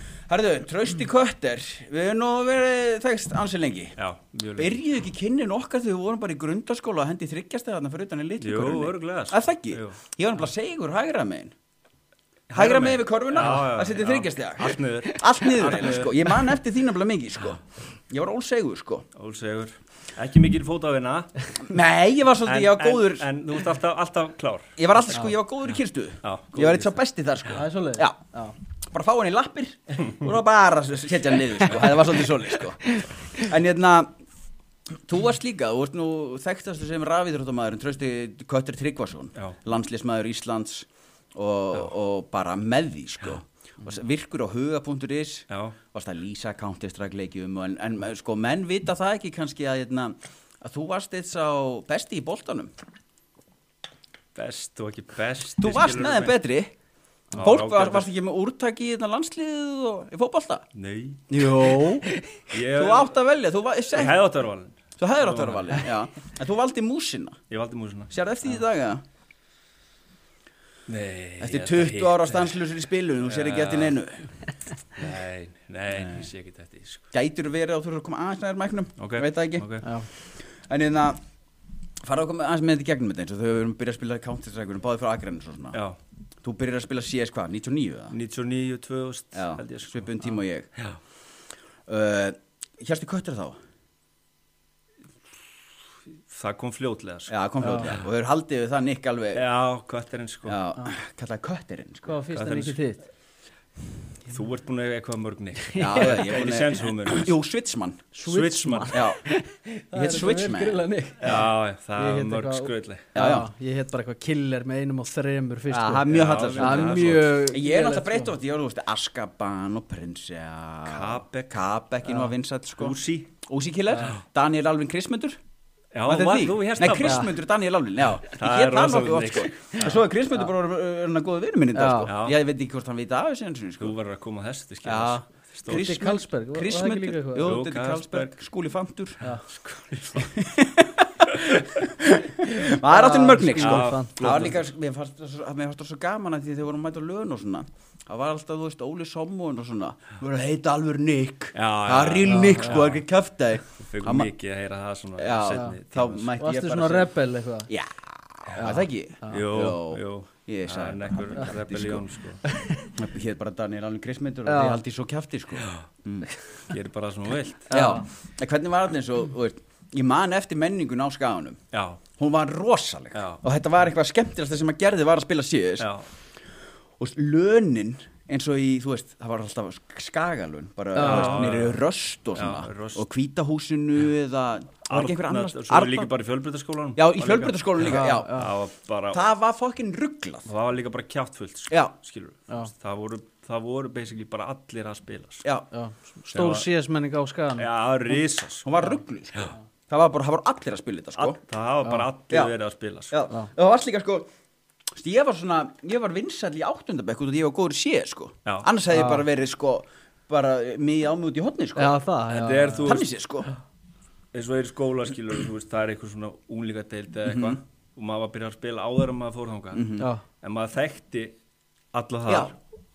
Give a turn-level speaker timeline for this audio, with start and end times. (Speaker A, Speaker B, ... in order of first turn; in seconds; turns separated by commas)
Speaker A: 0.3-4.0, Speaker B: 4.0-4.8, Speaker A: 4.5-11.5, Speaker B: 8.4-10.0, Speaker B: 12.5-16.3, Speaker A: 12.5-19.1, Speaker B: 19.1-21.4, Speaker A: 21.6-23.3, Speaker B: 22.4-25.2, Speaker A: 24.8-28.2, Speaker B: 26.2-27.0, Speaker C: 27.5-28.5, Speaker A: 28.9-34.1, Speaker A: 35.1-52.7, Speaker B: 45.5-45.8, Speaker B: 54.3-56.4, Speaker A: 55.6-56.7, Speaker B: 57.3-58.1, Speaker A: 57.3-60.7, Speaker B: 60.7-61.4, Speaker A: 61.3-64.2, Speaker B: 62.5-63.2, Speaker B: 63.9-65.9, Speaker A: 65.0-67.4, Speaker B: 67.5-68.1, Speaker A: 68.1-69.0, Speaker B: 70.9-72.5, Speaker A: 71.4-74.3, Speaker B: 73.2-74.0, Speaker B: 74.9-77.0, Speaker A: 76.0-76.2, Speaker A: 77.1-81.2, Speaker B: 79.0-79.9, Speaker C: 79.8-80.1, Speaker A: 82.0-85.8, Speaker A: 86.4-88.1, Speaker B: 88.1-90.0, Speaker A: 89.3-90.7, Speaker A: 91.9-93.6, Speaker B: 96.3-98.0, Speaker A: 97.3-99.4, Speaker B: 99.3-100.6, Speaker A: 100.5-102.2, Speaker C: 102.0-103.0, Speaker B: 102.3-102.8, Speaker B: 104.2-107.3, Speaker A: 105.7-108.0, Speaker C: 108.1-118.3, Speaker B: 108.2-109.0, Speaker A: 108.9-109.2, Speaker A: 109.9-111.4, Speaker B: 111.2-113.2, Speaker A: 113.1-113.5, Speaker A: 115.7-125.4, Speaker B: 116.1-117.4, Speaker B: 120.8-121.6, Speaker C: 122.0-122.3, Speaker B: 122.8-123.3, Speaker B: 125.9-127.3, Speaker A: 126.0-133.9, Speaker C: 126.9-127.3, Speaker B: 128.3-130.0, Speaker C: 131.7-132.1, Speaker B: 132.1-132.3, Speaker B: 133.8-135.9, Speaker A: 134.8-139.2, Speaker C: 135.7-137.6, Speaker B: 137.4-138.3, Speaker B: 139.5-140.3, Speaker A: 140.2-154.3, Speaker B: 141.4-141.8, Speaker C: 142.8-144.3, Speaker B: 143.6-144.7, Speaker B: 151.5-153.0, Speaker C: 152.2-152.8, Speaker B: 153.7-156.3, Speaker A: 155.2-157.1, Speaker C: 156.4-157.7, Speaker A: 157.7-162.1, Speaker C: 158.5-159.4, Speaker B: 159.3-162.4, Speaker C: 162.4-162.9, Speaker A: 162.8-166.3, Speaker C: 164.4-164.8, Speaker B: 165.6-165.8, Speaker B: 166.6-167.7, Speaker C: 167.7-168.0, Speaker A: 167.7-171.6, Speaker B: 171.7-172.0, Speaker A: 172.2-175.9, Speaker B: 173.1-173.4, Speaker B: 175.8-176.1, Speaker A: 177.0-186.1, Speaker C: 180.9-181.3, Speaker B: 181.0-181.8, Speaker B: 182.3-183.0, Speaker B: 184.9-189.2, Speaker A: 186.9-188.4, Speaker C: 187.8-188.5, Speaker A: 189.1-190.5, Speaker B: 190.4-195.4, Speaker C: 195.7-197.7, Speaker B: 196.3-196.7, Speaker B: 197.6-198.7, Speaker A: 198.6-201.4, Speaker B: 201.1-203.1, Speaker A: 203.1-204.3, Speaker A: 204.9-212.0, Speaker C: 208.9-209.2, Speaker C: 211.8-212.9, Speaker B: 212.3-213.1, Speaker A: 212.8-213.5, Speaker B: 214.3-219.9, Speaker A: 217.2-217.6, Speaker A: 219.7-220.1, Speaker B: 220.4-221.3, Speaker B: 221.9-222.6, Speaker A: 222.3-222.5